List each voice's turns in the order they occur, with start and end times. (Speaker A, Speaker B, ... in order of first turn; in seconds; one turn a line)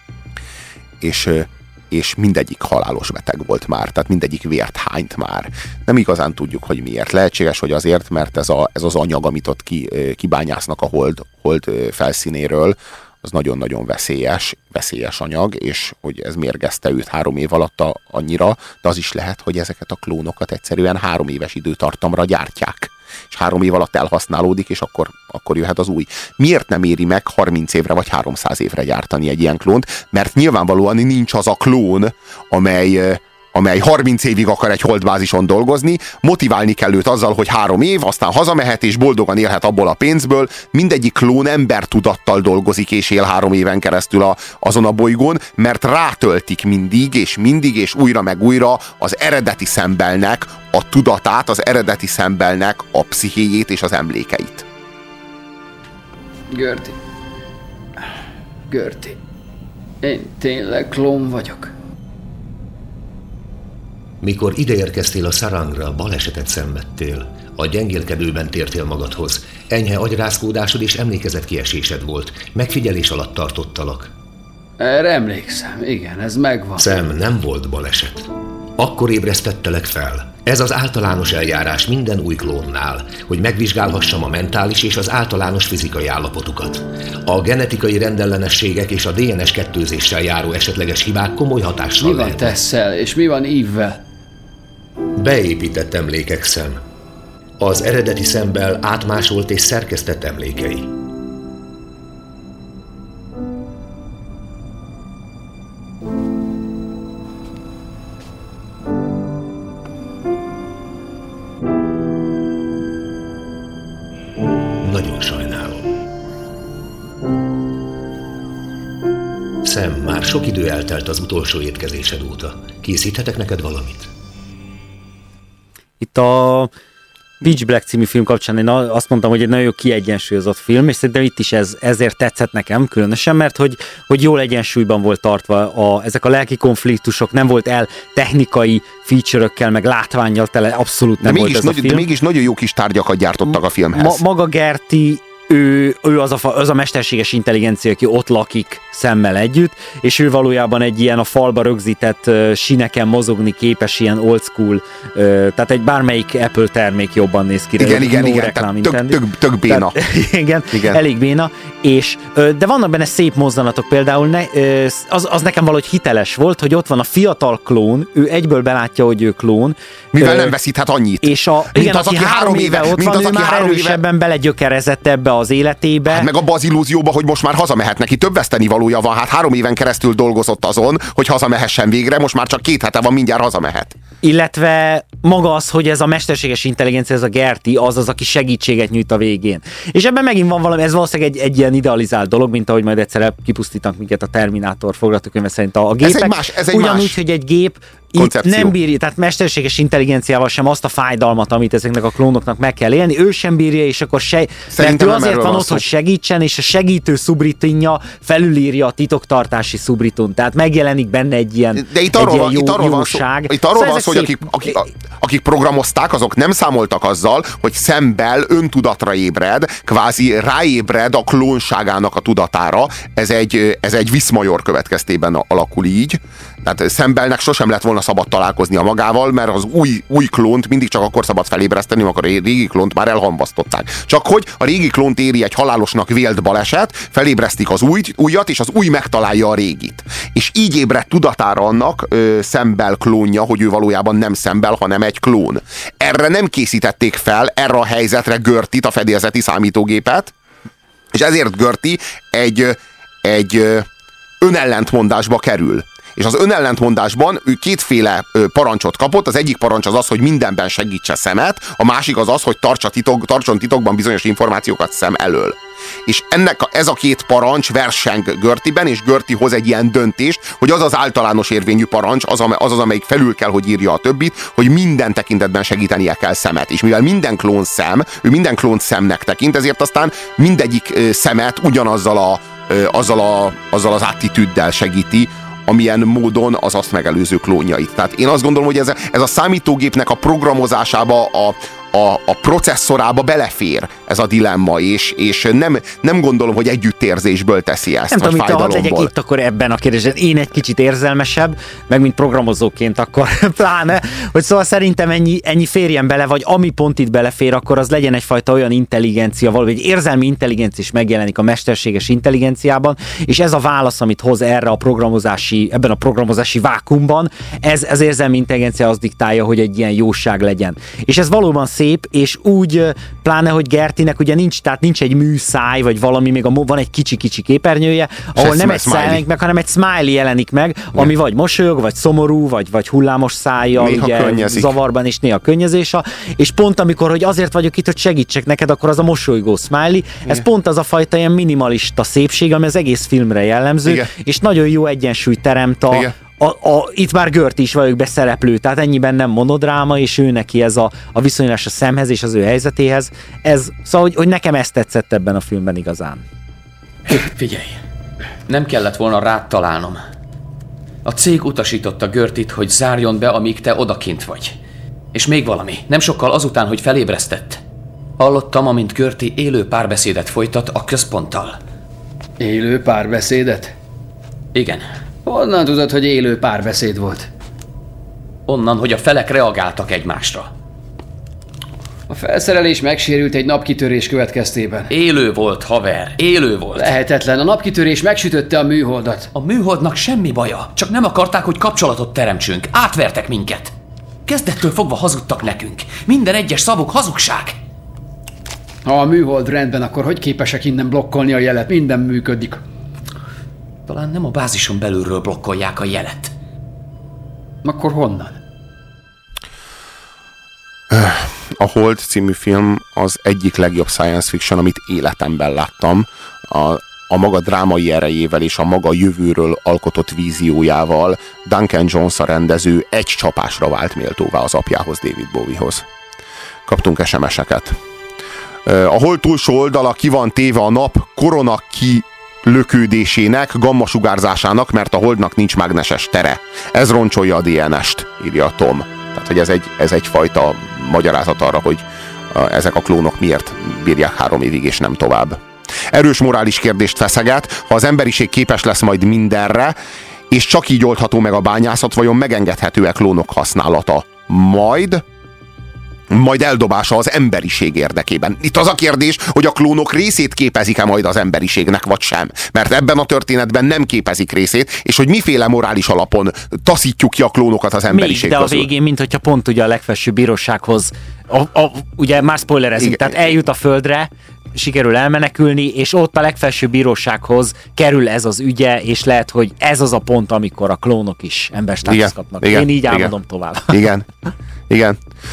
Speaker A: 1.0-54.6
Speaker B: 56.5-57.0
Speaker B: 58.7-59.2
Speaker B: 60.0-61.7
Speaker C: 64.2-74.1
Speaker B: 74.8-76.8
Speaker C: 76.8-92.6
Speaker B: 92.0-94.0
Speaker C: 95.2-96.8
Speaker C: 97.6-100.9
Speaker C: 114.8-115.9
Speaker C: 119.6-124.1
Speaker D: 126.0-126.7
Speaker D: 127.4-142.1
Speaker A: 141.2-144.2
Speaker D: 143.5-170.5
Speaker A: 157.8-160.0
Speaker A: 160.7-161.0
Speaker A: 170.1-174.0
Speaker D: 171.2-176.3
Speaker A: 176.1-183.9
Speaker D: 184.2-214.8
Speaker A: 196.0-197.2
Speaker A: 198.2-198.7
Speaker A: 204.7-205.9
Speaker A: 211.8-250.3
Speaker A: 251.1-253.9
Speaker A: 254.4-299.1
Speaker D: 298.1-356.2
Speaker A: 328.3-329.2
Speaker A: 333.8-334.7
Speaker E: 357.0-357.8
Speaker E: 358.5-360.0
Speaker E: 361.0-364.5
Speaker E: 365.1-367.6
Speaker E: 368.2-371.6
Speaker B: 372.4-373.7
Speaker E: 374.5-374.8
Speaker B: 375.2-377.3
Speaker E: 378.5-380.5
Speaker B: 382.1-384.9
Speaker E: 384.9-386.9
Speaker B: 386.7-389.3
Speaker E: 389.3-393.7
Speaker E: 394.2-397.6
Speaker B: 398.8-402.6
Speaker E: 403.9-406.3
Speaker B: 407.6-408.4
Speaker A: 410.9-425.9
Speaker A: 426.7-427.8
Speaker A: 428.6-449.7
Speaker A: 450.3-455.0
Speaker A: 456.1-468.7
Speaker D: 467.9-483.9
Speaker A: 472.8-473.3
Speaker A: 481.8-483.1
Speaker A: 483.7-484.1
Speaker A: 484.7-485.0